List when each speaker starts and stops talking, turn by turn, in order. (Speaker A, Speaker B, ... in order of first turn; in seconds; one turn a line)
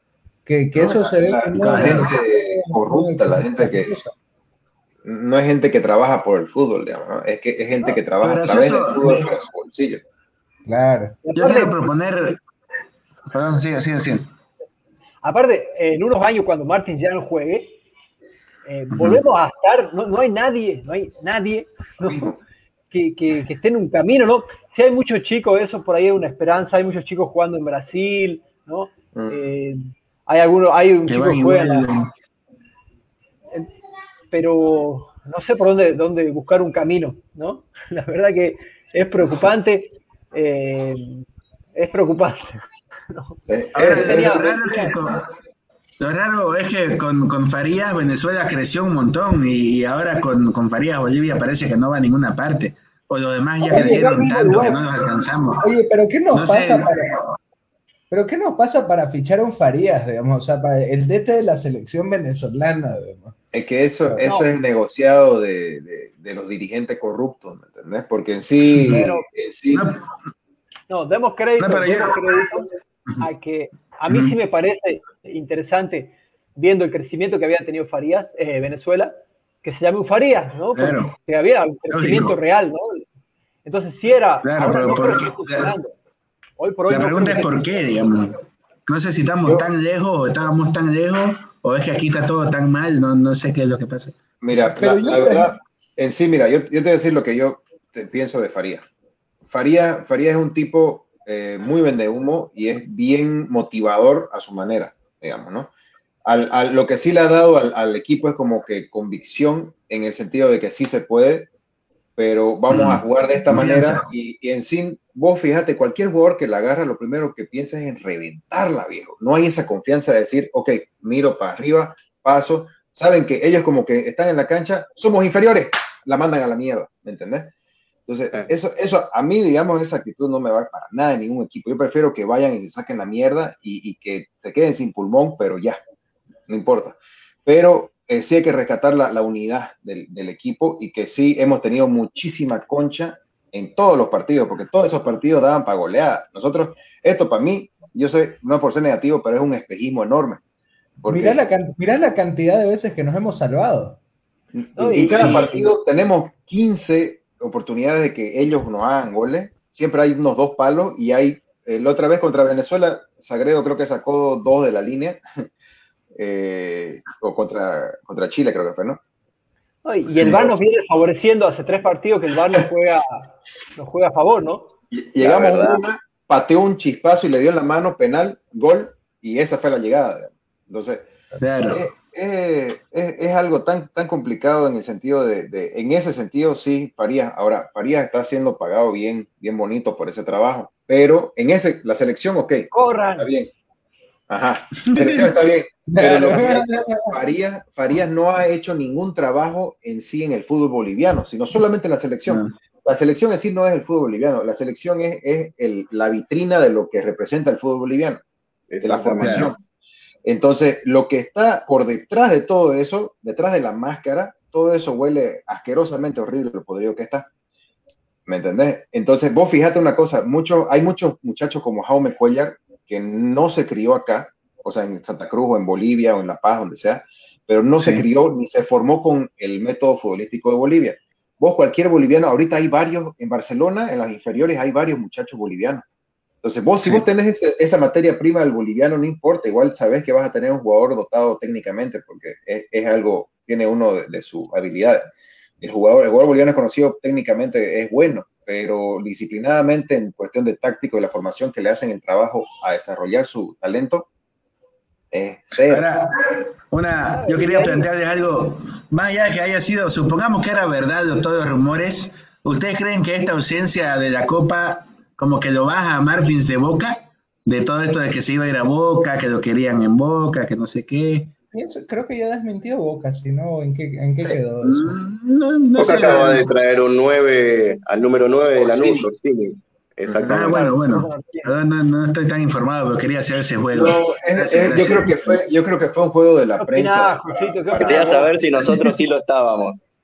Speaker A: 0.5-4.1
Speaker B: 0.8-3.9
Speaker C: 1.6-2.2
Speaker B: 5.0-10.0
Speaker C: 8.2-9.3
Speaker A: 10.7-11.2
Speaker D: 11.3-11.8
Speaker C: 11.3-12.4
Speaker C: 13.3-14.3
Speaker D: 15.2-17.8
Speaker D: 18.7-22.2
Speaker C: 18.9-19.2
Speaker B: 22.0-22.4
Speaker D: 22.9-31.9
Speaker B: 29.1-29.4
Speaker C: 31.1-32.1
Speaker D: 34.3-41.2
Speaker D: 41.8-43.4
Speaker B: 43.5-44.7
Speaker C: 43.7-45.2
Speaker D: 44.0-44.9
Speaker C: 46.0-55.7
Speaker D: 53.6-54.8
Speaker A: 53.7-54.5
Speaker A: 55.6-57.1
Speaker C: 56.3-57.4
Speaker A: 58.1-63.4
Speaker B: 63.5-69.9
Speaker D: 64.2-64.5
Speaker D: 68.9-69.3
Speaker C: 69.7-70.1
Speaker D: 70.9-83.0
Speaker C: 71.6-72.1
Speaker C: 74.1-74.3
Speaker C: 80.7-81.2
Speaker C: 81.9-82.4
Speaker D: 83.7-85.9
Speaker C: 84.4-85.8
Speaker D: 86.6-87.6
Speaker C: 86.9-88.4
Speaker C: 88.9-94.2
Speaker B: 94.4-98.9
Speaker A: 94.7-95.5
Speaker B: 99.5-105.7
Speaker B: 106.2-111.5
Speaker B: 112.2-127.5
Speaker C: 112.7-114.1
Speaker B: 128.1-135.8
Speaker B: 136.5-150.4
Speaker B: 151.0-151.4
Speaker A: 151.1-154.0
Speaker B: 154.6-165.2
Speaker D: 154.8-155.7
Speaker B: 166.2-169.0
Speaker D: 169.8-174.7
Speaker B: 170.2-170.5
Speaker B: 174.9-181.1
Speaker E: 175.2-175.8
Speaker C: 181.4-181.9
Speaker B: 181.7-193.5
Speaker D: 192.7-193.3
Speaker B: 194.3-208.2
Speaker C: 194.8-195.3
Speaker A: 195.9-197.0
Speaker C: 202.3-202.5
Speaker E: 208.7-209.5
Speaker B: 208.8-209.6
Speaker C: 209.2-209.5
Speaker B: 210.2-217.3
Speaker B: 218.3-235.8
Speaker C: 227.8-228.1
Speaker B: 236.4-245.1
Speaker B: 245.6-254.1
Speaker B: 255.1-255.8
Speaker C: 255.6-271.3
Speaker D: 257.1-257.9
Speaker A: 271.5-275.0
Speaker C: 274.6-276.5
Speaker B: 275.8-276.5
Speaker E: 275.8-280.6
Speaker B: 278.6-279.1
Speaker B: 280.1-280.6
Speaker C: 280.3-285.4
Speaker D: 280.5-281.6
Speaker B: 283.7-288.4
Speaker D: 286.6-288.3
Speaker E: 287.8-289.8